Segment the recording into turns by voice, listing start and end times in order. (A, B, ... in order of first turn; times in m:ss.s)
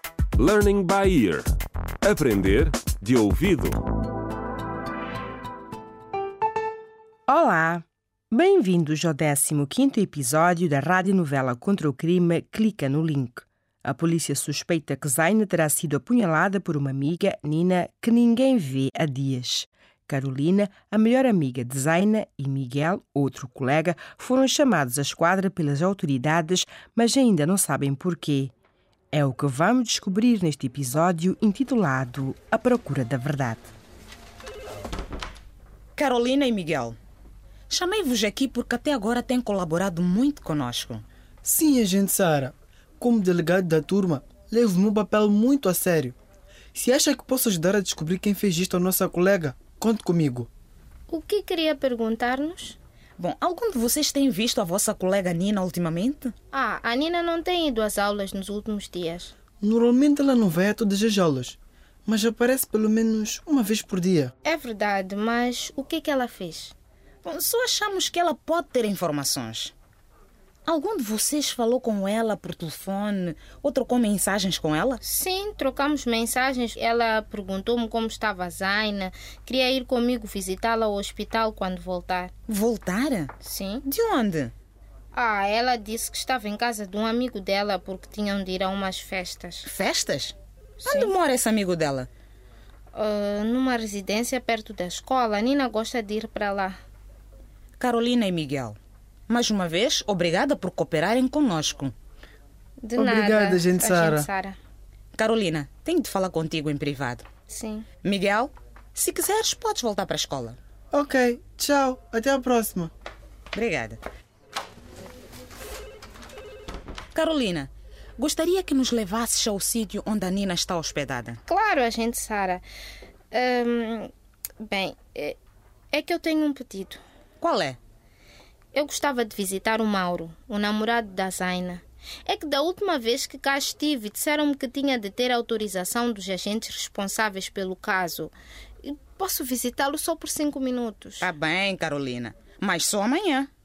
0:00.4-0:01.5 A
0:02.0-0:03.8 A
0:07.3-0:28.5 B
0:29.1-0:33.7 B
0:36.0-0:37.0 C
0:37.7-0:41.0 C
0:41.4-0:46.2 D
0:46.7-0:50.5 D
0:51.1-0:52.8 E
0:53.2-0:56.3 C
0:56.5-0:59.3 E
0:59.6-1:04.3 D
1:04.4-1:06.8 E
1:07.2-1:09.7 C
1:10.7-1:15.0 C
1:15.0-1:22.3 E
1:22.5-1:23.3 C
1:23.4-1:23.8 E
1:23.8-1:24.5 C
1:25.1-1:29.7 E
1:29.6-1:32.1 C
1:30.9-1:31.1 E
1:32.9-1:36.8 E
1:37.8-1:38.8 C
1:39.3-1:41.9 C
1:42.8-1:44.6 E
1:43.0-1:44.3 D
1:45.2-1:47.3 C
1:47.5-1:47.9 E
1:48.0-1:50.6 C
1:50.9-1:52.9 D
1:53.5-1:54.0 C
1:57.1-2:01.4 C
2:01.5-2:02.6 E
2:03.3-2:04.1 E
2:04.6-2:05.4 E
2:05.9-2:07.0 E
2:07.4-2:07.8 C
2:08.7-2:21.3 E
2:21.2-2:23.5 C